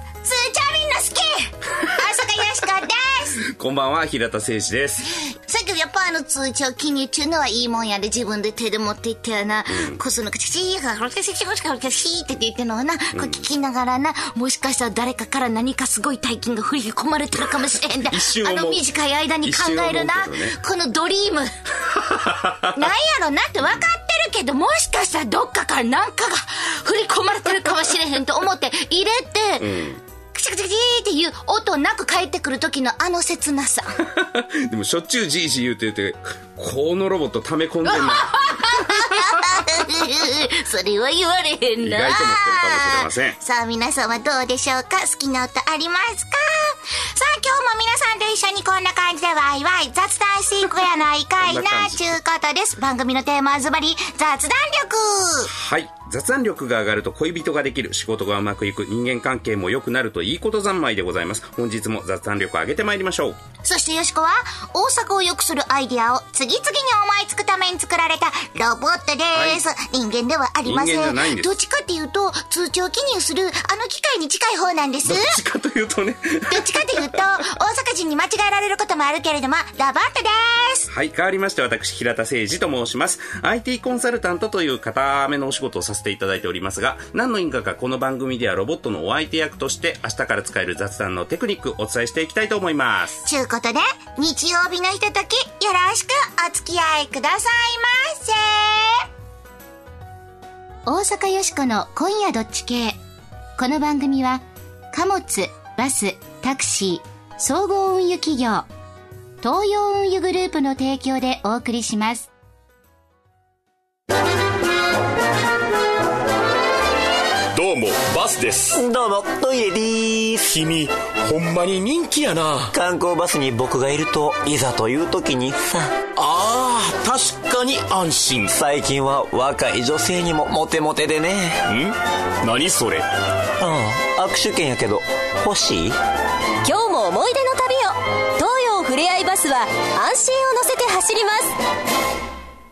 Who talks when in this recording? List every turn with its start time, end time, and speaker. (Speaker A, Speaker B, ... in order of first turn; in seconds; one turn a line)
Speaker A: 0.2-3.4
Speaker B: 3.4-5.2
Speaker A: 5.2-21.5
Speaker B: 9.7-10.0
Speaker B: 13.2-13.5
Speaker B: 18.1-18.8
Speaker B: 19.4-20.6
Speaker B: 21.8-22.8
Speaker A: 22.7-29.8
Speaker B: 29.6-30.0
Speaker A: 30.3-34.0
Speaker B: 34.0-39.4
Speaker A: 37.9-55.5
Speaker B: 41.8-43.4
Speaker B: 51.4-52.2
Speaker B: 55.5-63.4
Speaker A: 63.6-75.3
Speaker B: 69.3-69.6
Speaker B: 70.7-71.5
Speaker B: 75.0-77.2
Speaker A: 76.5-80.9
Speaker B: 80.9-93.2
Speaker A: 93.2-99.0
Speaker A: 100.9-103.0
Speaker A: 103.6-108.7
Speaker A: 109.4-112.3
Speaker C: 117.5-118.8
Speaker D: 118.7-120.6
Speaker C: 120.5-122.7
Speaker D: 122.7-126.0
Speaker C: 126.2-128.5
Speaker D: 128.5-131.6
Speaker C: 131.7-133.1
Speaker D: 133.6-135.9
Speaker E: 136.6-141.6